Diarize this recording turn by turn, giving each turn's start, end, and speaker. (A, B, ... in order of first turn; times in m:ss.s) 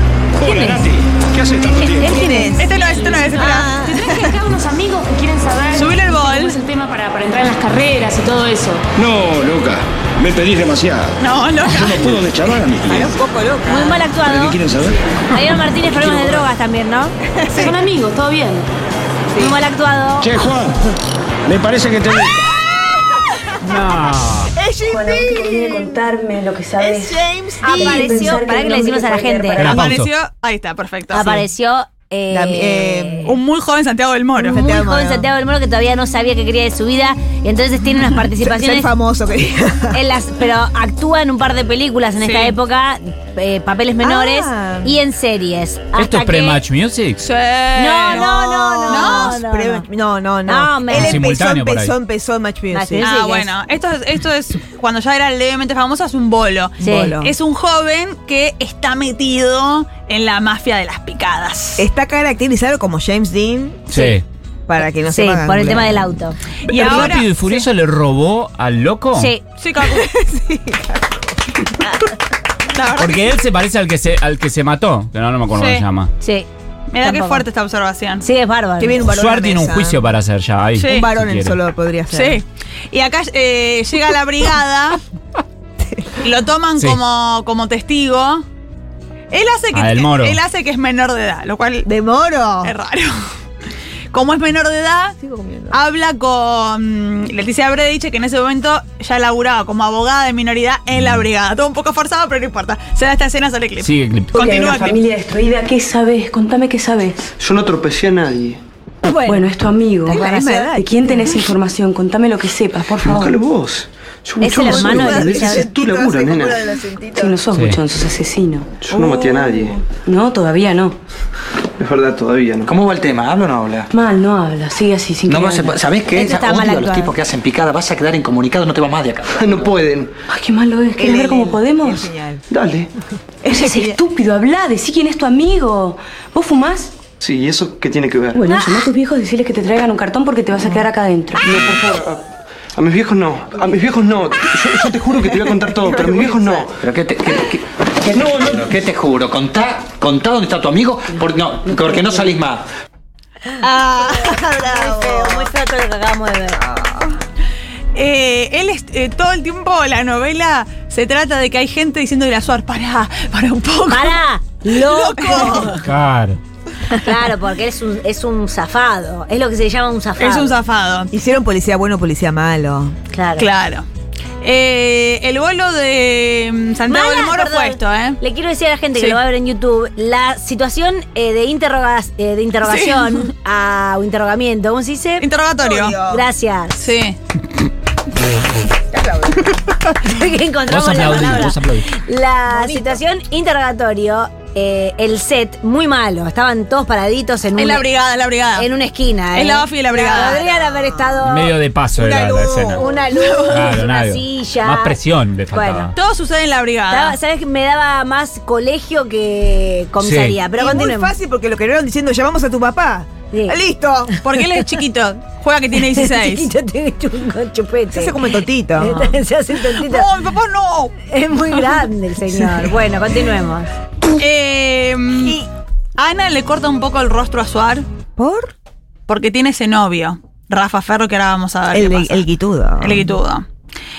0:00.4-0:02.3 A
0:00.4-0:00.9 B
0:01.7-0:02.7 B
0:02.0-0:02.8 C
0:02.6-0:03.7 D
0:02.9-0:08.9 E
0:03.3-0:04.4 C
0:05.7-0:06.6 D
0:09.0-0:13.2 A
0:11.2-0:12.2 D
0:12.9-0:14.1 C
0:13.7-0:14.6 B
0:14.3-0:15.0 A
0:15.3-0:17.2 B
0:17.3-0:17.8 C
0:17.5-0:18.7 E
0:19.4-0:20.3 B
0:20.2-0:20.8 A
0:21.5-0:22.4 A
0:22.4-0:23.5 C
0:23.6-0:24.5 F
0:24.5-0:26.0 C
0:24.9-0:29.9 G
0:26.8-0:28.4 C
0:27.6-0:29.7 B
0:29.6-0:30.1 F
0:29.6-0:31.4 D
0:31.1-0:33.3 B
0:32.3-0:33.3 C
0:33.2-0:34.6 D
0:34.4-0:35.3 C
0:34.4-0:38.9 B
0:38.4-0:40.0 C
0:39.9-0:46.6 B
0:42.2-0:42.6 D
0:44.0-0:45.0 C
0:46.0-0:47.2 F
0:47.2-0:48.3 D
0:47.8-0:49.9 B
0:48.1-0:53.1 C
0:48.9-0:49.4 D
0:50.5-0:51.2 B
0:50.9-0:52.0 F
0:52.7-0:53.5 B
0:53.0-1:01.8 D
0:56.8-0:57.3 C
0:56.8-0:57.2 B
1:01.8-1:03.9 C
1:03.9-1:04.2 F
1:04.7-1:06.2 C
1:05.0-1:06.4 B
1:06.7-1:07.3 D
1:06.7-1:09.3 F
1:06.8-1:07.2 C
1:09.2-1:09.4 B
1:09.6-1:10.1 D
1:09.8-1:12.1 C
1:12.7-1:13.4 D
1:13.0-1:16.1 F
1:15.5-1:15.8 D
1:16.2-1:16.5 B
1:16.9-1:18.2 D
1:17.0-1:17.4 B
1:18.2-1:19.0 B
1:18.8-1:20.1 C
1:19.0-1:21.6 F
1:20.8-1:21.1 D
1:20.8-1:22.4 C
1:22.1-1:25.0 D
1:26.2-1:28.4 D
1:29.3-1:31.9 D
1:29.7-1:30.4 F
1:31.9-1:32.7 C
1:32.6-1:33.2 D
1:34.1-1:35.2 D
1:35.2-1:35.8 C
1:35.7-1:45.0 D
1:43.8-1:44.4 F
1:44.3-1:47.3 G
1:47.4-1:48.6 H
1:49.0-1:49.5 B
1:49.3-1:53.4 G
1:50.1-1:51.4 C
1:50.2-1:50.5 B
1:53.0-1:56.6 H
1:54.4-1:55.7 B
1:54.6-1:57.4 C
1:57.2-2:01.0 G
1:57.5-1:57.8 F
1:58.8-1:59.8 H
2:01.8-2:02.7 H
2:02.7-2:03.9 I
2:03.9-2:05.8 G
2:05.3-2:09.7 I
2:06.1-2:07.2 B
2:09.4-2:10.1 H
2:10.3-2:12.1 G
2:11.0-2:12.5 C
2:12.5-2:12.9 H
2:13.4-2:14.0 C
2:13.5-2:17.0 G
2:17.2-2:18.4 H
2:18.4-2:22.0 G
2:21.4-2:22.2 H
2:22.7-2:26.8 H
2:25.9-2:26.6 C
2:26.8-2:32.7 I
2:33.6-2:35.5 C
2:34.2-2:36.6 B
2:36.6-2:37.2 C
2:38.0-2:44.2 D
2:43.9-2:45.8 B
2:44.7-2:45.8 D
2:45.3-2:45.7 C
2:45.8-2:46.4 F
2:46.9-2:50.6 B
2:50.2-2:51.1 D
2:51.1-2:53.0 C
2:53.1-2:53.5 B
2:53.4-2:53.9 D
2:54.4-2:58.2 D
2:56.9-3:05.3 B
3:02.6-3:03.3 D
3:05.2-3:06.0 D
3:05.6-3:06.3 C
3:06.1-3:06.8 B
3:06.8-3:07.2 D
3:08.9-3:09.6 C
3:10.0-3:17.9 B
3:10.7-3:11.9 F
3:12.5-3:13.0 C
3:17.6-3:18.7 D
3:18.6-3:21.6 B
3:19.3-3:20.4 D
3:20.0-3:21.2 C
3:21.2-3:22.8 F
3:21.9-3:22.9 C
3:22.8-3:25.0 B
3:23.1-3:23.8 D
3:23.5-3:26.0 F
3:25.5-3:25.9 B
3:26.0-3:27.2 D
3:26.9-3:31.1 B
3:30.0-3:30.4 F
3:30.5-3:34.1 C
3:33.3-3:33.6 B
3:34.1-3:34.7 B
3:34.2-3:36.5 D
3:35.8-3:40.1 B
3:37.9-3:39.2 C
3:39.7-3:40.9 D
3:41.1-3:43.7 B
3:42.4-3:42.6 C
3:44.2-3:45.4 D
3:45.2-3:45.5 C
3:46.0-3:47.9 D
3:48.2-3:48.5 C
3:49.1-3:52.3 D
3:51.7-3:53.1 C
3:52.8-3:53.5 D